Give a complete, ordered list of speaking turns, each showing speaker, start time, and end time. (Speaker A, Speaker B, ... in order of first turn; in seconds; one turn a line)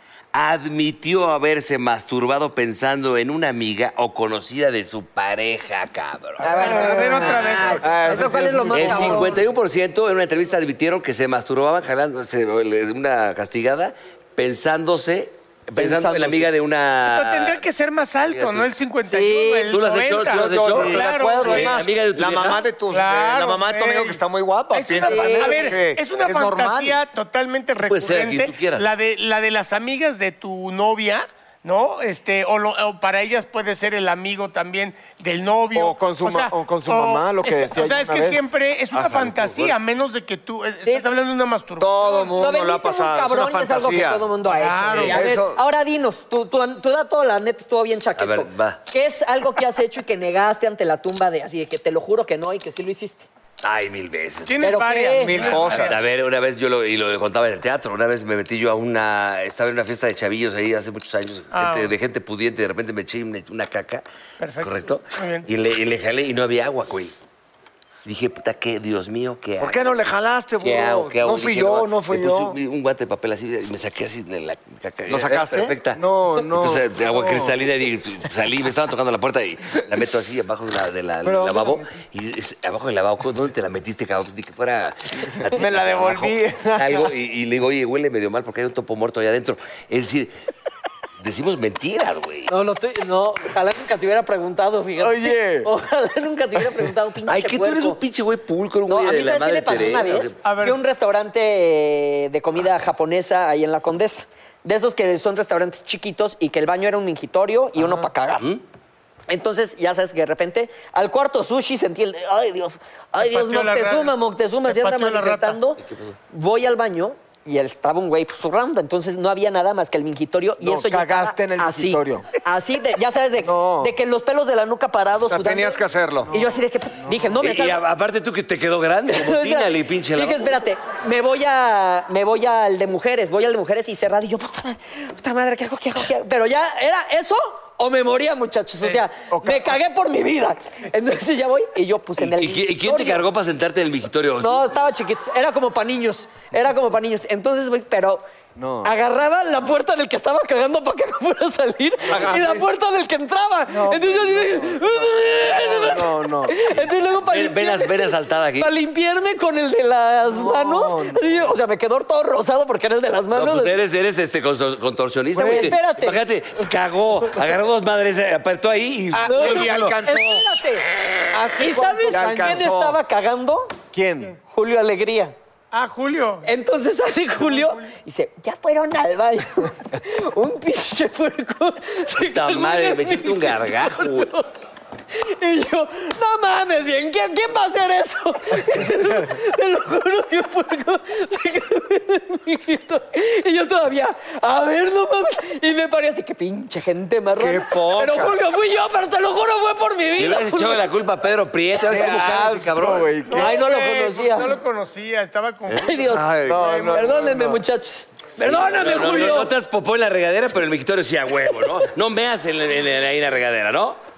Speaker A: 0.3-6.8
Speaker B: 6.4-9.4
Speaker C: 6.6-8.1
Speaker D: 6.7-9.3
Speaker A: 8.7-17.6
Speaker B: 15.8-16.5
Speaker C: 17.0-21.8
Speaker A: 18.3-18.7
Speaker B: 19.1-19.7
Speaker A: 19.7-22.6
Speaker E: 20.3-27.0
Speaker D: 20.7-21.1
Speaker C: 22.9-42.4
Speaker B: 25.0-25.8
Speaker A: 27.9-28.9
Speaker D: 35.7-38.5
Speaker A: 39.1-39.6
Speaker E: 41.8-44.3
Speaker B: 42.4-53.3
Speaker C: 44.5-45.2
Speaker E: 44.9-45.6
Speaker A: 48.2-48.8
Speaker A: 53.6-54.6
Speaker C: 54.5-56.0
Speaker B: 54.6-55.7
Speaker E: 55.2-56.0
Speaker A: 55.8-64.0
Speaker C: 61.5-61.9
Speaker C: 64.4-65.5
Speaker A: 64.6-67.1
Speaker A: 68.0-69.9
Speaker E: 69.6-72.6
Speaker A: 70.6-76.0
Speaker E: 75.1-75.7
Speaker D: 75.9-77.5
Speaker A: 76.5-90.3
Speaker D: 81.2-81.9
Speaker D: 85.5-87.1
Speaker A: 91.2-92.5
Speaker B: 92.5-98.0
Speaker D: 95.0-95.7
Speaker A: 97.3-100.4
Speaker B: 98.9-108.5
Speaker C: 100.4-100.8
Speaker A: 108.4-108.6
Speaker B: 109.3-127.8
Speaker C: 113.2-114.1
Speaker C: 114.7-115.6
Speaker A: 115.8-116.2
Speaker D: 120.6-122.3
Speaker D: 123.4-123.9
Speaker E: 125.3-126.3
Speaker D: 126.3-127.3
Speaker A: 127.4-130.6
Speaker B: 129.1-143.2
Speaker D: 139.3-139.8
Speaker A: 142.2-144.8
Speaker B: 144.4-148.2
Speaker D: 148.6-148.9
Speaker B: 148.8-163.8
Speaker D: 152.1-152.5
Speaker E: 152.2-152.5
Speaker D: 153.7-156.6
Speaker A: 157.2-158.7
Speaker D: 160.2-161.6
Speaker A: 163.3-170.0
Speaker D: 165.3-165.7
Speaker B: 165.4-166.2
Speaker B: 169.2-170.8
Speaker E: 169.2-170.5
Speaker A: 171.0-171.3
Speaker D: 171.3-172.6
Speaker B: 171.6-173.7
Speaker E: 172.1-173.0
Speaker D: 173.9-174.3
Speaker B: 174.5-175.3
Speaker C: 175.7-176.5
Speaker B: 176.4-184.5
Speaker C: 177.4-177.9
Speaker A: 182.2-184.3
Speaker B: 185.1-200.8
Speaker E: 197.4-198.4
Speaker A: 200.2-203.2
Speaker D: 201.8-203.6
Speaker C: 203.3-207.1
Speaker B: 203.3-204.5
Speaker B: 205.8-209.5
Speaker E: 206.1-206.8
Speaker D: 206.4-207.6
Speaker A: 208.4-214.0